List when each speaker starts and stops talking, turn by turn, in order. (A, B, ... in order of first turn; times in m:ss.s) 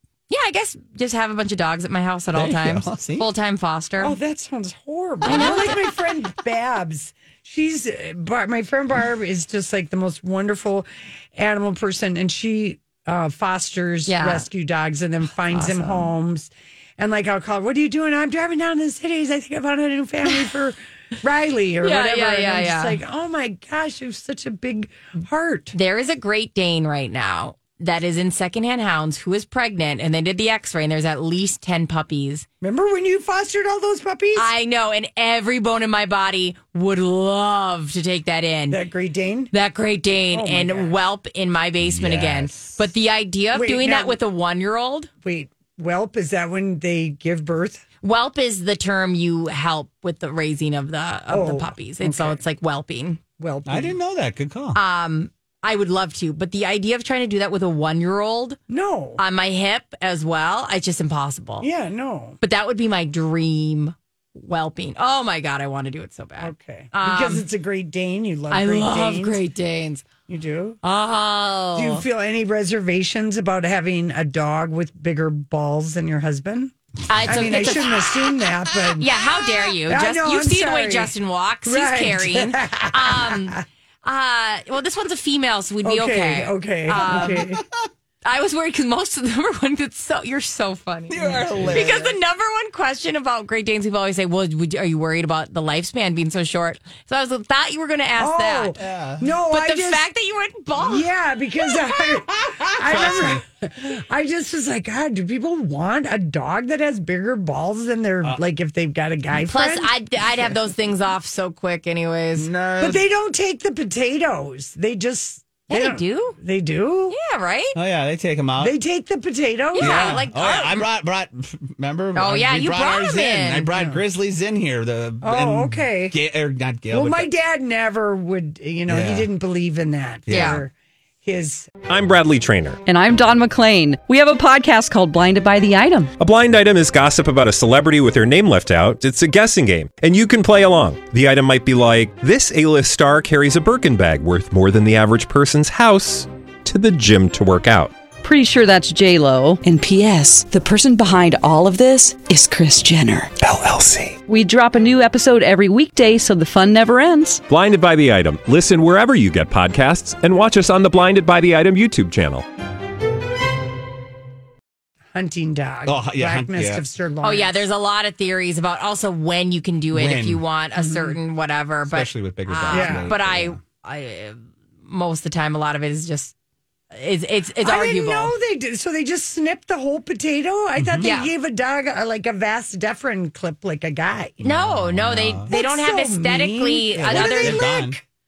0:00.3-0:04.2 A
0:02.3-0:03.3 B
0:04.0-0:25.7 C
0:05.2-0:05.8 A
0:14.1-0:14.4 A
0:15.5-0:16.1 A
0:21.8-0:23.0 A
0:25.7-0:32.5 A
0:32.6-0:34.5 C
0:34.4-0:38.8 A
0:38.7-0:39.5 C
0:39.5-0:45.1 A
0:40.3-0:40.9 C
0:41.8-0:42.7 B
0:43.5-0:44.2 C
0:45.2-0:47.8 C
0:48.0-0:53.2 A
0:51.3-0:52.4 C
0:53.4-0:54.0 C
0:53.7-0:54.8 B
0:54.7-0:58.6 A
0:58.7-0:59.2 C
0:59.2-1:01.7 A
1:01.6-1:02.4 C
1:02.4-1:07.4 A
1:06.4-1:09.4 C
1:08.5-1:10.1 A
1:10.3-1:10.8 C
1:10.8-1:12.0 A
1:11.7-1:16.7 C
1:17.1-1:17.9 A
1:17.2-1:19.1 C
1:19.0-1:27.5 A
1:19.8-1:21.1 C
1:21.6-1:23.6 C
1:25.8-1:27.6 C
1:27.0-1:27.4 B
1:28.2-1:38.7 A
1:31.1-1:32.1 B
1:31.2-1:31.9 C
1:38.2-1:40.0 C
1:38.8-1:39.2 B
1:39.5-1:41.1 A
1:40.8-1:49.9 C
1:42.4-1:43.4 B
1:49.4-1:52.5 A
1:52.4-1:53.0 B
1:52.8-1:57.2 C
1:55.7-1:56.4 A
1:57.1-1:57.8 A
1:57.7-1:58.7 B
1:58.6-2:00.2 C
1:59.7-2:00.8 A
1:59.8-2:07.3 B
2:02.1-2:03.7 A
2:03.7-2:04.0 C
2:05.2-2:06.2 C
2:06.9-2:11.7 C
2:08.9-2:09.3 B
2:10.3-2:10.6 B
2:10.3-2:10.6 A
2:11.9-2:12.8 D
2:12.9-2:16.1 E
2:16.2-2:27.9 D
2:28.2-2:33.3 E
2:33.4-2:34.2 D
2:34.2-2:37.4 E
2:37.4-2:42.4 D
2:45.1-2:47.6 C
2:45.8-2:46.8 B
2:47.2-2:56.3 A
2:49.9-2:50.4 B
2:50.8-2:51.2 C
2:51.9-2:53.6 B
2:52.7-2:53.1 C
2:56.9-2:58.3 A
2:57.6-3:04.4 C
3:00.8-3:01.1 B
3:01.0-3:01.3 A
3:04.4-3:05.5 B
3:04.4-3:07.9 A
3:05.5-3:08.0 C
3:07.0-3:08.0 B